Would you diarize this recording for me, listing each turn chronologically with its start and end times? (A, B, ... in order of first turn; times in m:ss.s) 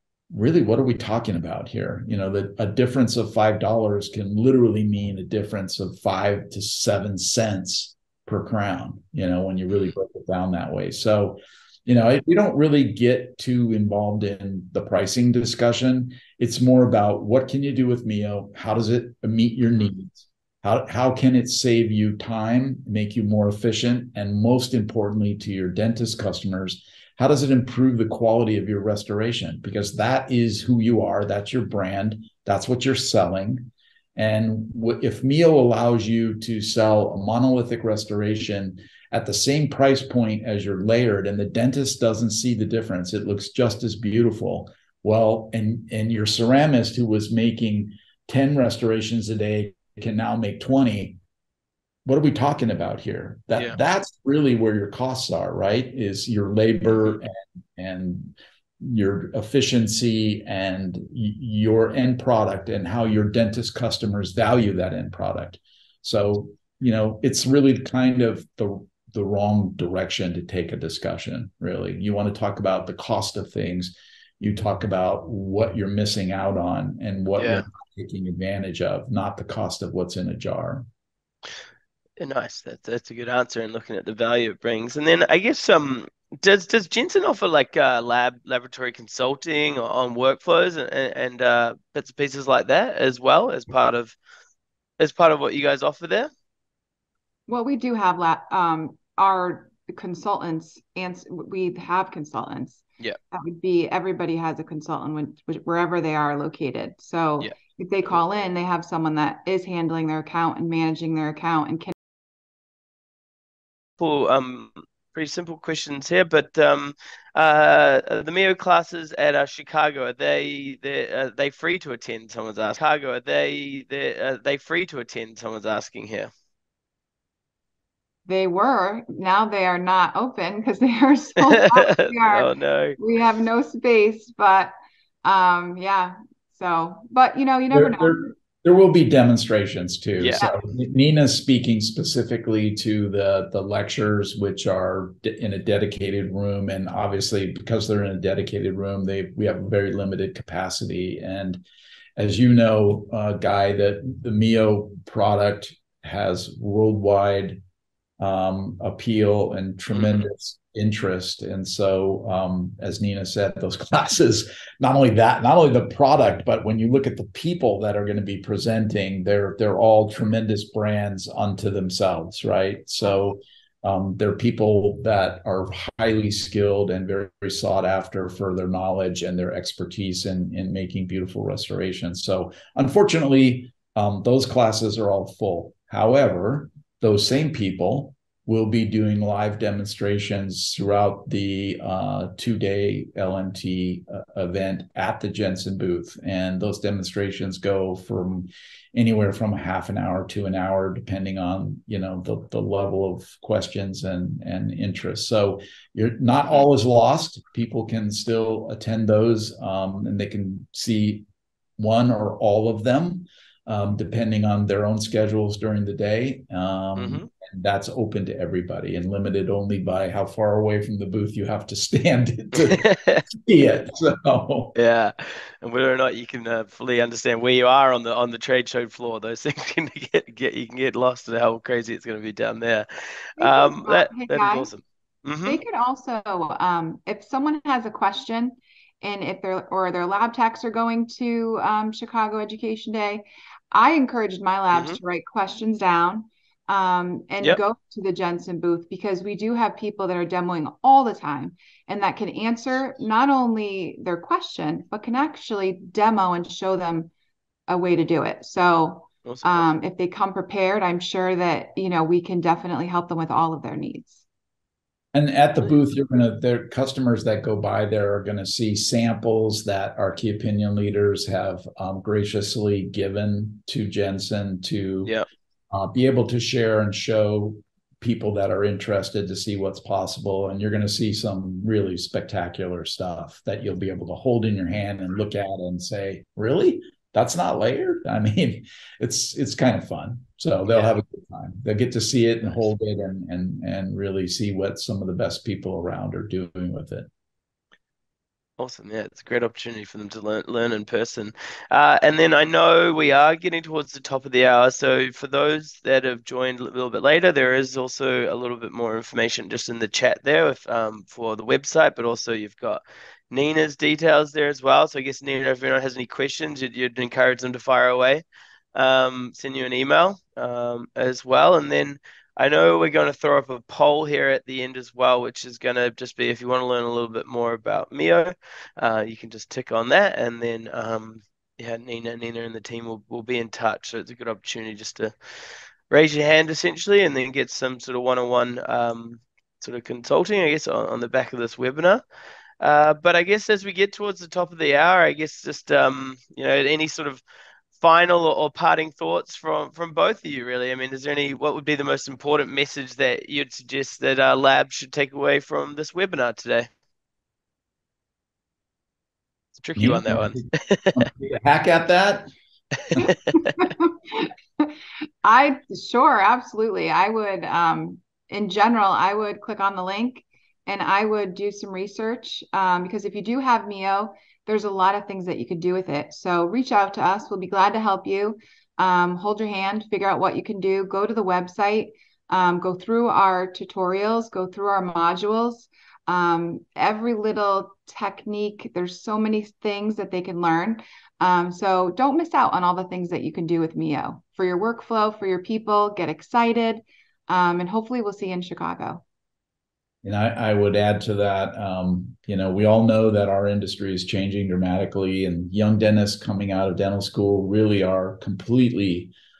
0:00.3-0:51.2 A
0:52.0-1:20.8 A
1:17.4-1:17.6 B
1:22.2-1:34.2 B
1:35.0-1:36.3 B
1:37.5-1:51.9 C
1:54.0-2:06.3 B
2:08.3-2:14.7 C
2:11.4-2:13.0 B
2:15.2-2:18.3 C
2:17.7-2:31.6 A
2:32.2-2:37.6 A
2:38.2-3:31.2 A
2:39.9-2:40.3 B
3:31.8-3:44.7 A
3:37.0-3:37.3 B
3:42.6-3:43.2 B
3:44.7-3:55.6 B
3:53.4-3:54.7 C
3:55.4-4:17.1 C
4:04.7-4:05.0 B
4:17.7-4:24.2 C
4:19.2-4:19.7 B
4:25.1-4:35.1 A
4:35.7-4:57.1 A
4:50.7-4:50.9 B
4:58.6-5:18.2 B
5:18.7-5:35.1 B
5:35.9-5:42.0 B
5:42.6-5:47.2 B
5:47.8-5:56.7 B
5:59.6-6:01.0 B
5:59.8-6:02.3 A
6:02.8-6:03.5 B
6:03.0-6:04.7 C
6:05.2-6:39.0 C
6:40.0-6:49.1 A